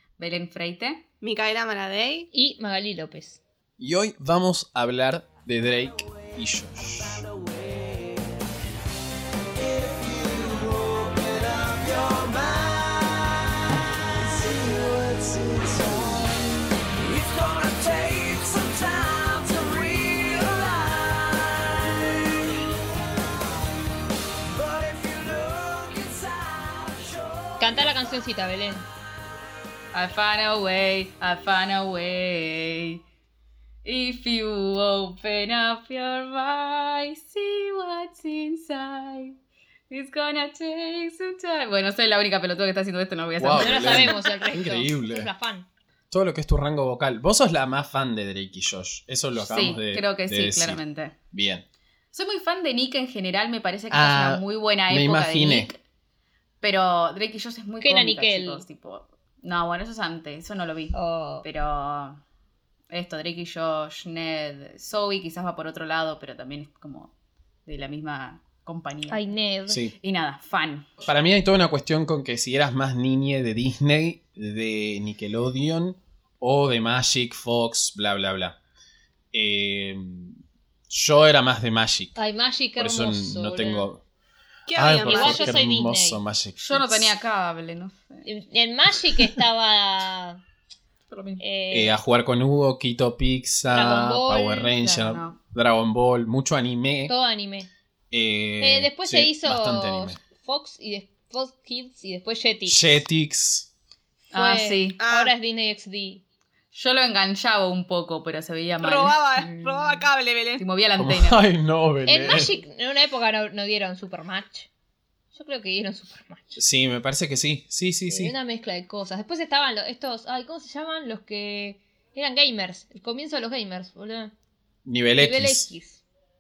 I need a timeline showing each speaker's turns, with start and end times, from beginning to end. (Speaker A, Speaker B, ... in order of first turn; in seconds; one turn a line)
Speaker A: 0.2-1.0
Speaker B: 1.2-2.3
Speaker C: 2.3-3.4
Speaker D: 3.8-7.3
Speaker B: 11.7-12.6
Speaker B: 15.1-16.1
Speaker B: 17.1-20.7
Speaker B: 24.8-26.2
Speaker C: 27.6-28.9
Speaker A: 29.9-33.0
Speaker A: 33.9-39.4
Speaker A: 39.9-44.2
Speaker D: 43.4-45.3
Speaker C: 43.5-45.7
Speaker D: 46.1-50.8
Speaker A: 49.4-51.1
Speaker D: 51.3-51.7
Speaker A: 52.1-55.8
Speaker D: 53.9-55.7
Speaker A: 56.6-62.2
Speaker C: 57.8-58.7
Speaker C: 60.9-61.5
Speaker A: 62.9-67.1
Speaker A: 67.7-69.3
Speaker C: 69.1-69.9
Speaker D: 69.7-69.9
Speaker A: 70.0-71.0
Speaker D: 71.0-78.6
Speaker D: 79.3-82.2
Speaker C: 82.2-83.9
Speaker D: 82.8-84.0
Speaker B: 84.7-85.5
Speaker D: 84.7-87.2
Speaker C: 85.0-86.2
Speaker A: 86.6-88.3
Speaker C: 88.2-90.4
Speaker C: 91.4-92.0
Speaker D: 91.7-97.1
Speaker C: 93.7-94.8
Speaker A: 94.8-95.4
Speaker C: 97.1-97.7
Speaker D: 98.1-100.2
Speaker C: 98.6-103.0
Speaker D: 102.7-103.7
Speaker A: 104.3-105.0
Speaker C: 104.3-106.2
Speaker B: 105.0-105.3
Speaker A: 106.7-109.4
Speaker B: 108.8-110.6
Speaker C: 109.5-110.1
Speaker A: 110.6-111.4
Speaker D: 111.0-112.6
Speaker C: 112.1-114.7
Speaker C: 115.3-116.6
Speaker D: 116.6-118.4
Speaker C: 118.1-124.3
Speaker D: 124.8-125.7
Speaker C: 125.2-126.0